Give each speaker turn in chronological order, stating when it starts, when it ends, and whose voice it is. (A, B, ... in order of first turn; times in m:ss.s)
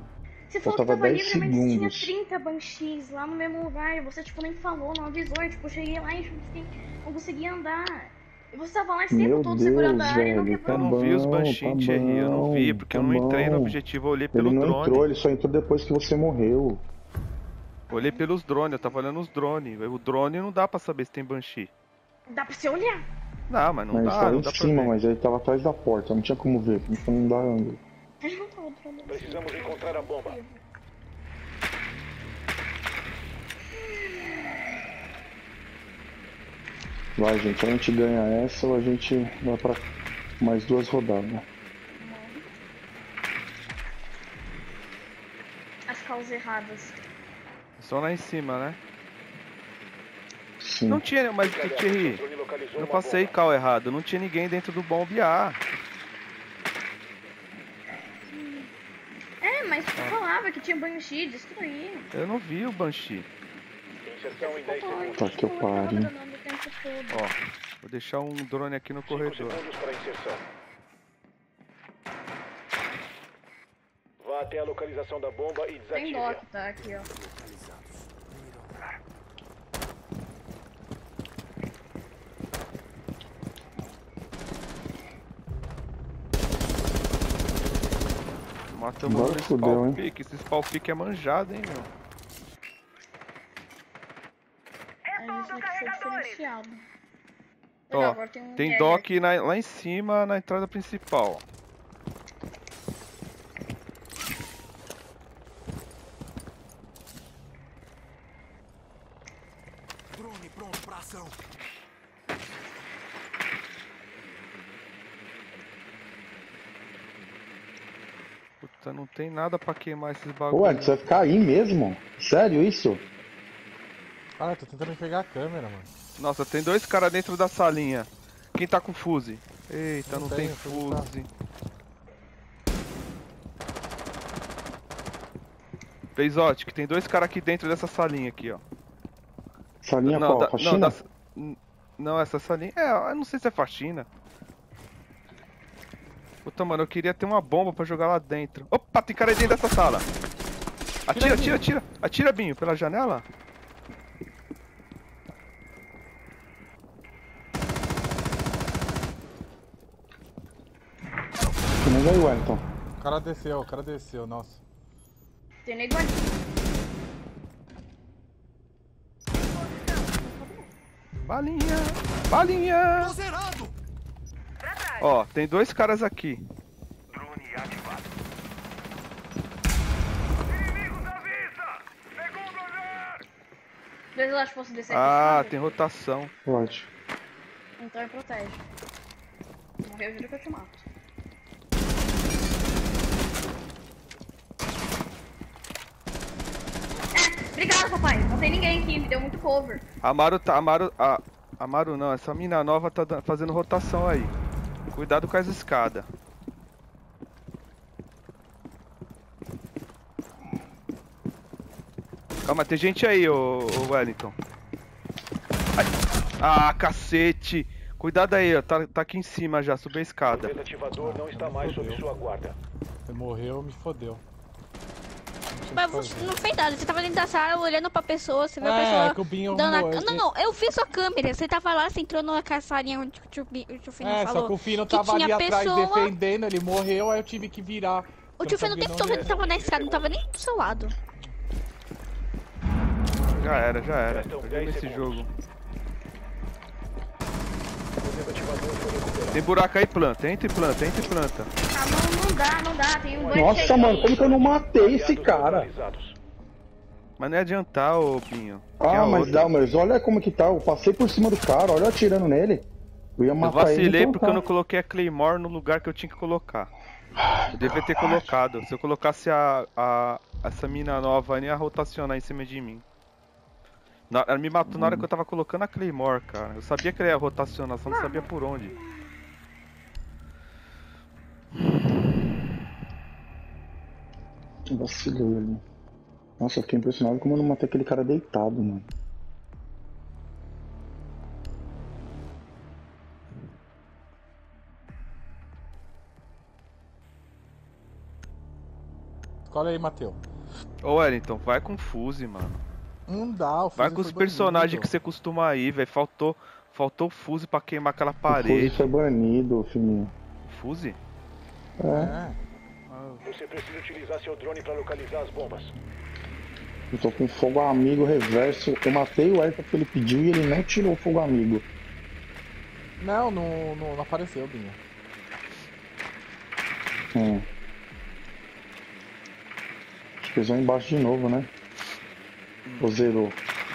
0:00.5-0:10.9 A
0:00.6-0:02.1 B
0:09.1-0:13.8 B
0:10.7-0:15.1 C
0:14.3-0:16.8 B
0:17.9-0:21.7 C
0:17.9-0:18.2 A
0:22.3-0:23.0 A
0:23.5-0:24.9 C
0:23.9-0:27.8 B
0:28.2-0:30.6 A
0:29.1-0:30.4 D
0:33.8-0:34.5 A
0:37.2-0:39.9 B
0:40.4-0:41.4 B
0:42.0-0:42.4 A
0:45.9-0:47.0 A
0:47.8-0:48.8 C
0:50.6-0:51.0 B
0:50.9-0:52.2 C
0:51.4-0:53.4 D
0:52.7-0:55.6 C
0:58.3-0:58.7 A
0:59.4-1:02.1 A
1:02.1-1:03.3 C
1:04.0-1:05.4 D
1:04.4-1:07.2 A
1:05.2-1:06.1 B
1:07.1-1:09.6 C
1:09.0-1:10.4 D
1:14.2-1:16.4 D
1:15.9-1:17.1 A
1:16.8-1:18.8 E
1:28.7-1:31.9 C
1:29.0-1:30.0 B
1:35.2-1:36.8 A
1:37.9-1:39.1 A
1:37.9-1:41.4 C
1:50.1-1:51.4 E
1:58.6-2:01.1 C
2:00.5-2:03.0 B
2:04.4-2:05.9 F
2:06.2-2:11.3 C
2:10.1-2:11.1 F
2:16.2-2:18.6 C
2:19.8-2:21.0 B
2:20.0-2:24.1 C
2:26.4-2:30.1 C
2:31.1-2:33.2 C
2:31.1-2:31.6 F
2:41.8-2:42.6 B
2:43.0-2:44.6 F
2:45.6-2:46.3 A
2:50.2-2:50.6 A
2:51.2-2:53.2 C
2:53.0-2:53.7 E
2:55.0-2:56.4 C
2:57.2-2:58.0 D
3:04.1-3:05.8 A
3:04.9-3:06.3 C
3:06.4-3:06.9 B
3:07.8-3:08.6 A
3:09.8-3:10.8 A
3:17.1-3:19.8 A
3:20.0-3:24.3 C
3:24.9-3:26.1 C
3:32.4-3:34.3 C
3:35.8-3:40.6 C
3:40.3-3:42.6 D
3:41.0-3:42.0 F
3:43.0-3:44.2 F
3:45.5-3:46.3 F
3:45.7-3:56.1 G
3:48.6-3:50.2 F
3:54.0-3:59.4 F
3:58.4-4:00.9 G
3:59.0-4:00.3 D
4:03.2-4:05.3 C
4:03.5-4:05.2 D
4:08.0-4:09.5 D
4:09.3-4:11.5 C
4:11.7-4:14.2 A
4:13.1-4:16.2 D
4:13.3-4:15.7 B
4:17.2-4:19.5 C
4:18.8-4:22.6 B
4:23.2-4:24.4 B
4:23.4-4:26.7 C
4:27.3-4:28.3 B
4:27.5-4:32.8 C
4:34.1-4:38.8 C
4:34.7-4:35.0 B
4:37.9-4:39.0 A
4:44.7-4:45.6 B
4:46.4-4:48.9 B
4:59.4-5:00.2 F
5:00.8-5:02.6 C
5:03.1-5:04.9 F
5:03.8-5:08.9 C
5:08.3-5:10.1 B
5:10.4-5:11.0 C
5:11.8-5:12.2 B
5:11.9-5:12.4 F
5:12.9-5:13.2 C
5:13.2-5:15.7 D
5:16.9-5:21.6 B
5:23.0-5:24.8 F
5:27.1-5:27.4 B
5:30.2-5:31.5 B
5:32.6-5:33.0 C
5:32.8-5:33.4 B